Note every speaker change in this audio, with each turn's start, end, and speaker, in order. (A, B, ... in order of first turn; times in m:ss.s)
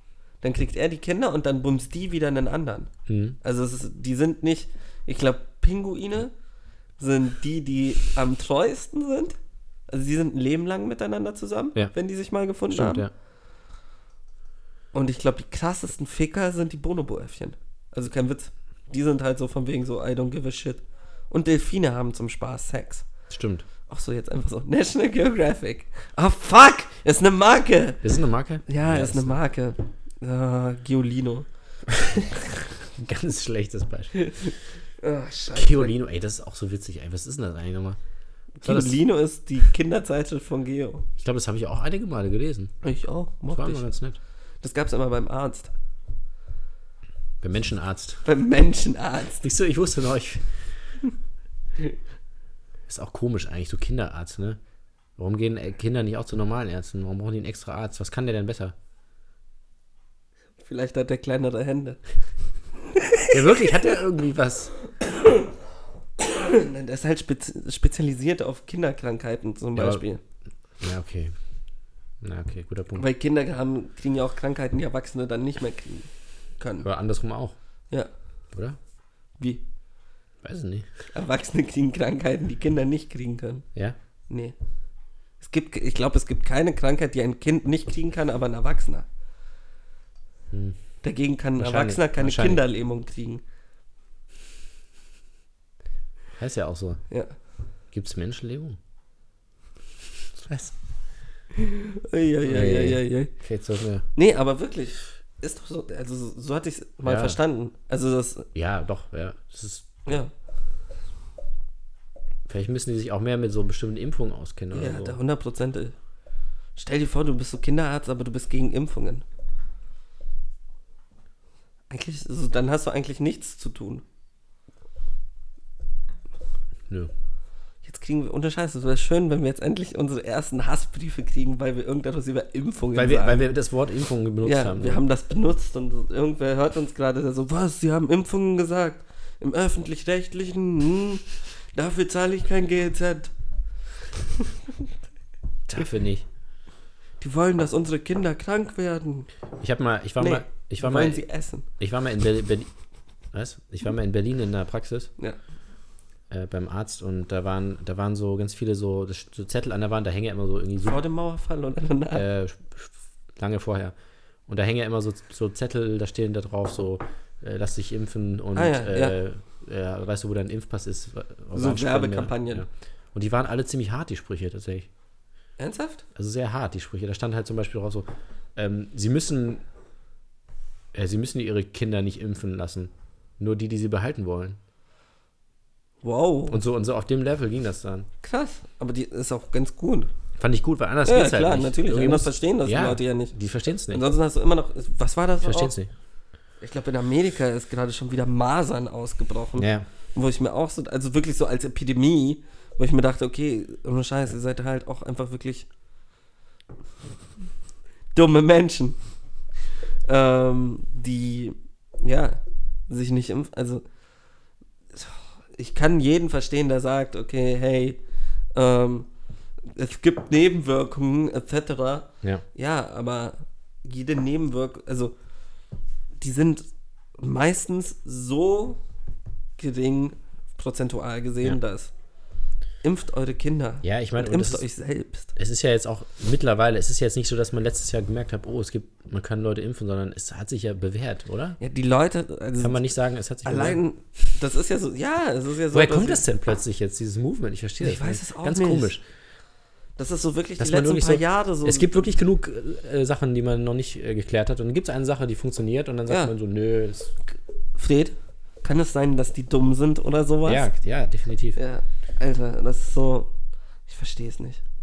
0:00.4-0:02.9 A
0:03.1-0:03.4 B
0:03.4-0:06.4 A
0:07.0-0:09.4 A
0:09.9-0:13.1 A
0:12.7-0:13.1 B
0:14.9-0:23.1 A
0:23.3-0:23.7 B
0:23.9-0:28.0 A
0:28.0-0:29.4 B
0:28.7-0:31.5 A
0:32.0-0:32.3 A
0:32.9-0:34.5 B
0:34.2-0:35.9 A
0:35.5-0:38.0 B
0:38.6-0:41.0 A
0:38.6-0:39.0 B
0:41.2-0:42.7 B
0:42.8-0:43.9 A
0:43.5-0:44.2 B
0:44.6-0:45.7 A
0:47.4-0:48.2 B
0:48.2-0:49.4 A
0:49.4-0:50.5 B
0:52.9-0:54.6 B
0:55.2-0:58.8 B
1:00.6-1:02.0 A
1:03.3-1:04.7 B
1:06.2-1:10.2 A
1:09.8-1:10.0 B
1:10.8-1:11.4 B
1:12.2-1:13.0 B
1:13.0-1:16.9 A
1:16.8-1:17.6 B
1:18.5-1:18.8 B
1:20.4-1:20.9 B
1:21.1-1:23.6 A
1:24.3-1:24.5 A
1:25.4-1:29.1 A
1:30.5-1:30.8 B
1:31.0-1:33.4 A
1:31.6-1:32.6 B
1:36.4-1:37.0 B
1:37.9-1:38.8 B
1:40.4-1:40.7 B
1:41.6-1:43.3 A
1:42.4-1:44.0 B
1:44.2-1:48.5 A
1:47.0-1:47.4 B
1:48.5-1:49.9 B
1:52.5-1:55.2 B
1:54.7-1:56.0 A
1:56.8-1:59.2 A
2:01.9-2:04.0 A
2:07.8-2:13.5 A
2:13.0-2:15.0 B
2:14.4-2:23.3 A
2:25.7-2:26.3 B
2:27.2-2:29.3 A
2:29.6-2:32.7 B
2:30.2-2:31.7 A
2:33.3-2:35.1 B
2:36.3-2:41.0 B
2:40.8-2:42.3 A
2:42.1-2:44.0 B
2:44.5-2:54.9 B
2:48.5-2:49.2 A
2:51.5-2:52.7 A
2:55.6-2:56.0 A
2:56.2-2:59.6 B
3:00.9-3:04.6 B
3:06.0-3:06.6 A
3:06.5-3:08.1 B
3:08.2-3:10.1 A
3:10.4-3:14.1 B
3:11.1-3:13.3 A
3:13.9-3:15.8 A
3:15.4-3:15.9 B
3:16.6-3:25.7 A
3:19.6-3:19.9 B
3:28.1-3:29.0 A
3:30.0-3:33.8 A
3:34.9-3:38.0 A
3:38.5-3:39.1 A
3:39.6-3:45.2 A
3:46.2-3:48.8 A
3:49.6-3:51.9 A
3:52.8-3:55.3 A
3:53.8-3:54.6 B
3:55.4-4:01.6 B
4:01.6-4:02.9 A
4:02.6-4:03.8 B
4:03.4-4:06.2 A
4:05.7-4:09.0 B
4:07.8-4:08.9 A
4:10.0-4:12.1 A
4:10.6-4:17.1 B
4:17.8-4:20.7 A
4:20.5-4:21.6 B
4:21.6-4:23.3 A
4:23.9-4:24.6 A